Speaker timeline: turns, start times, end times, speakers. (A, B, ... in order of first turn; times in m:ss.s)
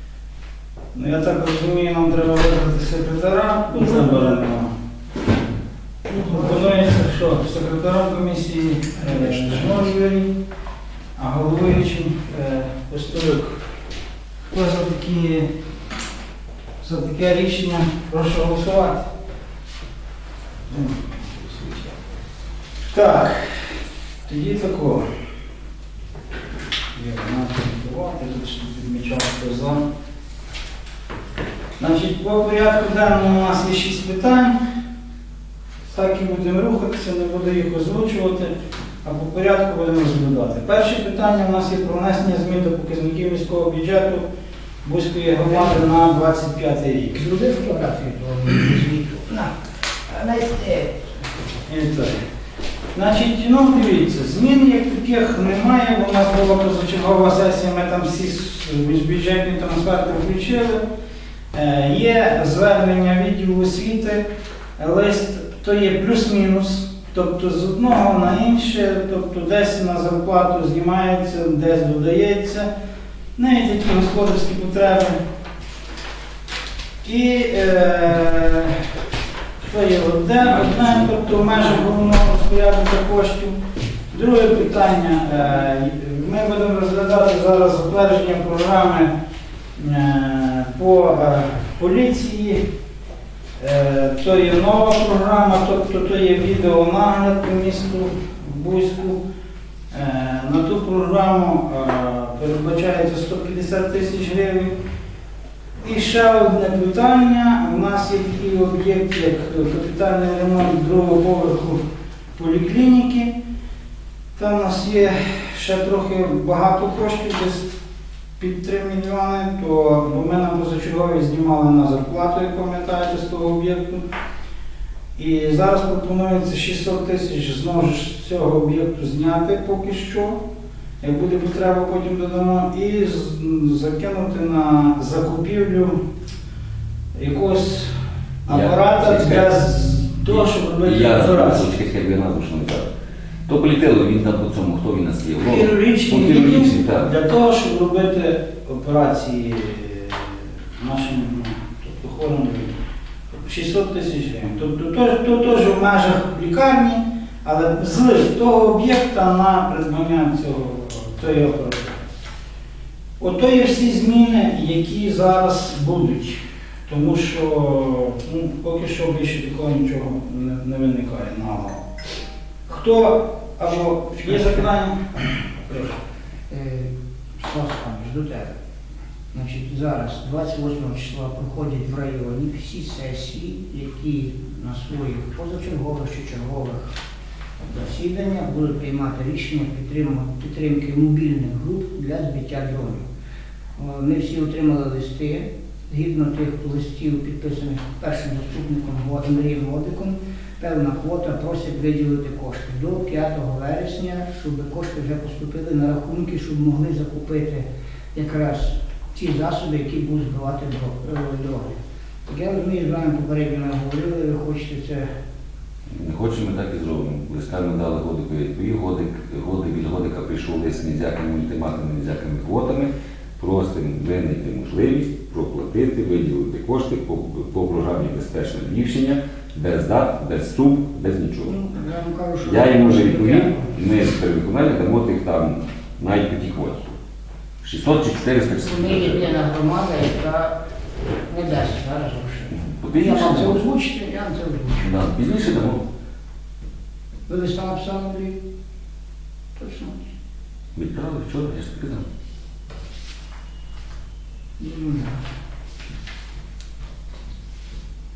0:00.9-0:04.7 A
0:06.1-0:10.3 A
0:11.2-0:13.6 A
0:14.5-0:15.5 A
0:16.8-0:19.1 A
0:20.7-0:21.1 A
0:22.9-0:23.7 A
0:24.3-0:25.0 A
0:27.0-0:29.8 A
0:31.8-0:34.6 A
0:35.9-0:38.5 A
0:39.0-0:44.2 A
0:44.8-0:47.2 A
0:47.2-0:49.5 B
0:50.1-0:51.0 B
0:51.7-0:52.2 A
0:53.0-1:00.8 A
1:01.5-1:04.2 A
1:04.8-1:12.7 A
1:13.4-1:15.2 A
1:17.0-1:18.8 A
1:19.6-1:23.6 A
1:24.1-1:29.1 A
1:29.8-1:32.6 A
1:33.6-1:39.2 A
1:39.9-1:44.8 A
1:45.8-1:51.8 A
1:52.4-1:53.3 A
1:54.4-1:57.7 A
1:58.4-2:04.0 A
2:05.2-2:10.4 A
2:11.0-2:16.0 A
2:17.2-2:17.9 A
2:18.4-2:21.8 A
2:18.5-2:19.5 C
2:20.3-2:22.9 C
2:23.5-2:27.1 C
2:25.4-2:32.7 A
2:33.4-2:42.1 A
2:43.2-2:51.8 A
2:52.7-2:56.0 A
2:56.5-2:58.6 B
2:59.3-3:06.9 B
3:07.6-3:13.0 B
3:13.8-3:31.7 B
3:32.3-3:35.1 B
3:35.9-3:51.5 C
3:51.5-3:53.7 B
3:52.4-3:57.0 C
3:57.6-3:59.4 C
3:58.6-4:00.6 B
4:01.3-4:04.9 B
4:02.5-4:03.6 C
4:04.8-4:05.8 C
4:07.3-4:08.4 B
4:09.6-4:10.0 B
4:10.8-4:12.0 C
4:14.6-4:15.2 B